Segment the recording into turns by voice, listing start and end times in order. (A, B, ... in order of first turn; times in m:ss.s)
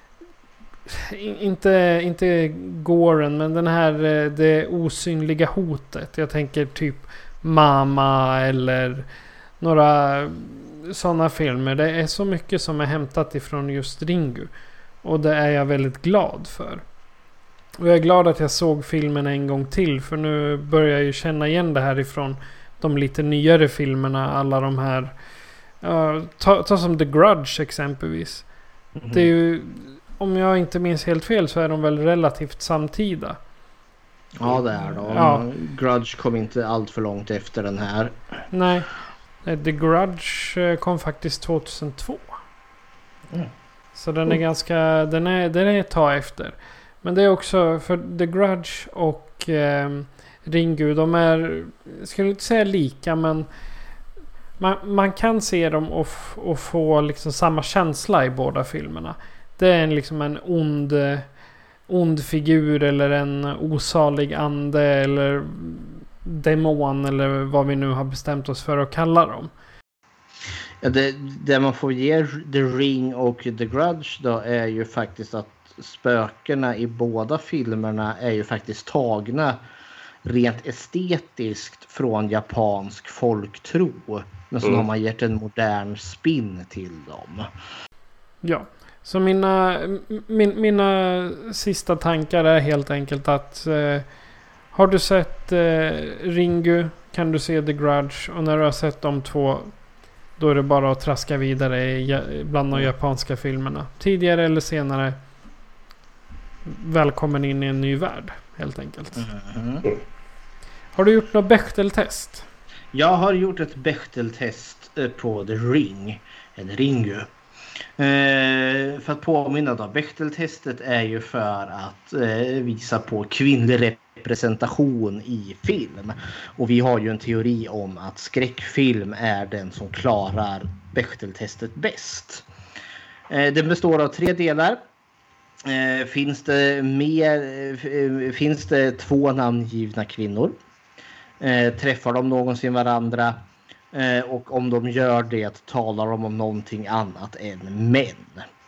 0:00.9-0:09.0 A
0:09.6-0:14.5 A
0:15.0-0:16.8 A
0:17.8-0:25.1 A
0:25.8-0:28.4 A
0:29.0-0:29.3 B
0:29.1-0:33.4 A
0:34.4-0:38.2 B
0:34.9-0:35.4 A
0:38.5-0:38.9 A
0:39.4-0:42.4 A
0:43.9-0:53.5 A
0:54.6-1:01.3 A
1:01.9-1:09.5 A
1:10.8-1:19.6 B
1:20.2-1:27.5 B
1:28.4-1:34.0 A
1:34.7-1:39.7 A
1:40.4-1:45.2 A
1:46.7-1:49.3 A
1:49.2-1:49.8 B
1:50.9-1:52.4 A
1:52.9-1:57.3 B
1:58.0-2:12.4 B
2:13.3-2:14.8 B
2:15.6-2:20.6 B
2:21.4-2:23.4 B
2:23.9-2:28.4 B